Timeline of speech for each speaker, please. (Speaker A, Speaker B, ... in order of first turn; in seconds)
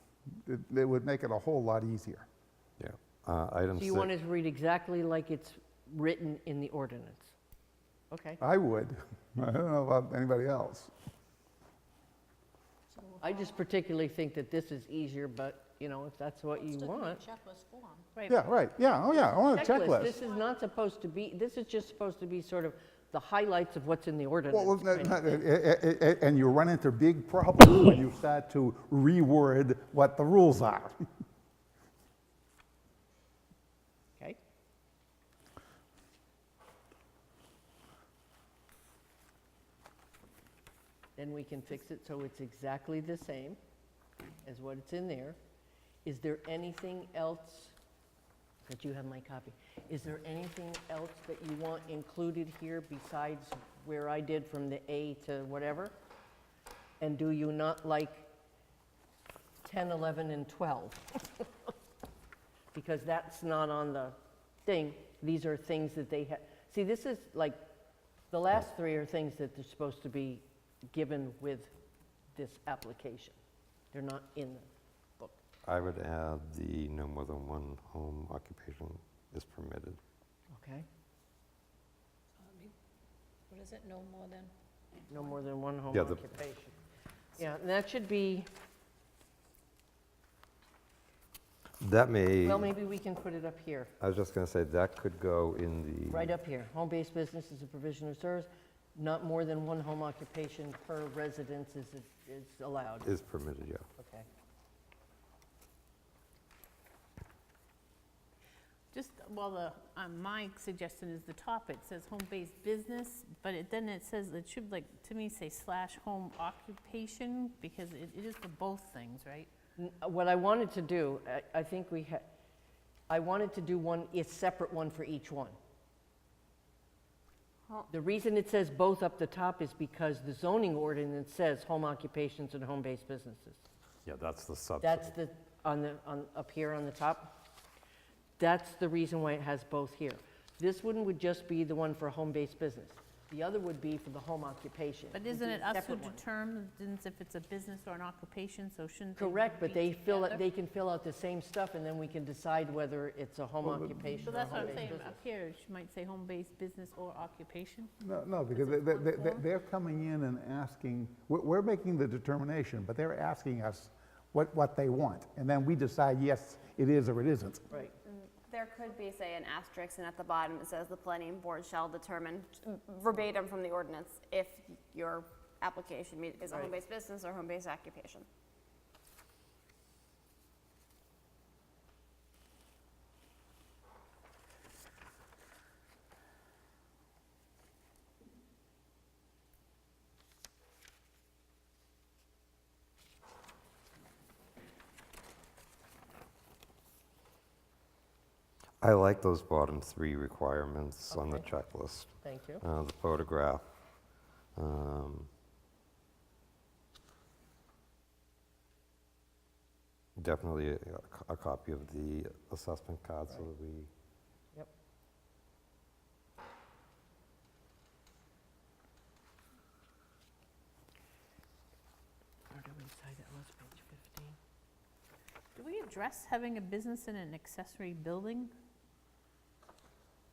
Speaker A: 0.4-2.3, 8.4-10.9, 18.3-20.2, 24.5-31.0, 153.6-154.9, 158.0-167.7
Speaker B: 2.8-4.1, 75.6-80.0, 85.9-86.3, 91.8-92.7, 94.0-96.3, 103.0-103.9, 134.1-135.1, 198.8-203.6, 204.6-205.3, 210.2-213.9
Speaker C: 3.8-7.3, 8.1-8.4, 13.2-17.2, 19.5-25.4, 41.2-43.6, 44.4-45.4, 46.0-47.8, 48.6-55.9, 57.0-58.3, 59.6-61.7, 62.7-67.6, 68.3-71.7, 72.3-73.4, 73.9-75.4, 80.5-80.9, 85.1-86.7, 87.4-88.5, 92.4-93.9, 96.1-103.1, 104.0-104.3, 119.8-122.3, 123.1-125.6, 127.9-133.6, 134.8-137.3, 138.4-146.2, 149.2-155.2, 176.5-176.8, 201.1-201.6, 202.2-202.6, 222.5-224.4
Speaker D: 13.0-13.5, 16.6-18.1, 82.4-82.7, 83.5-84.5
Speaker E: 108.9-119.5, 145.1-150.5, 154.2-157.9, 158.5-159.4, 225.6-228.5
Speaker F: 168.0-178.3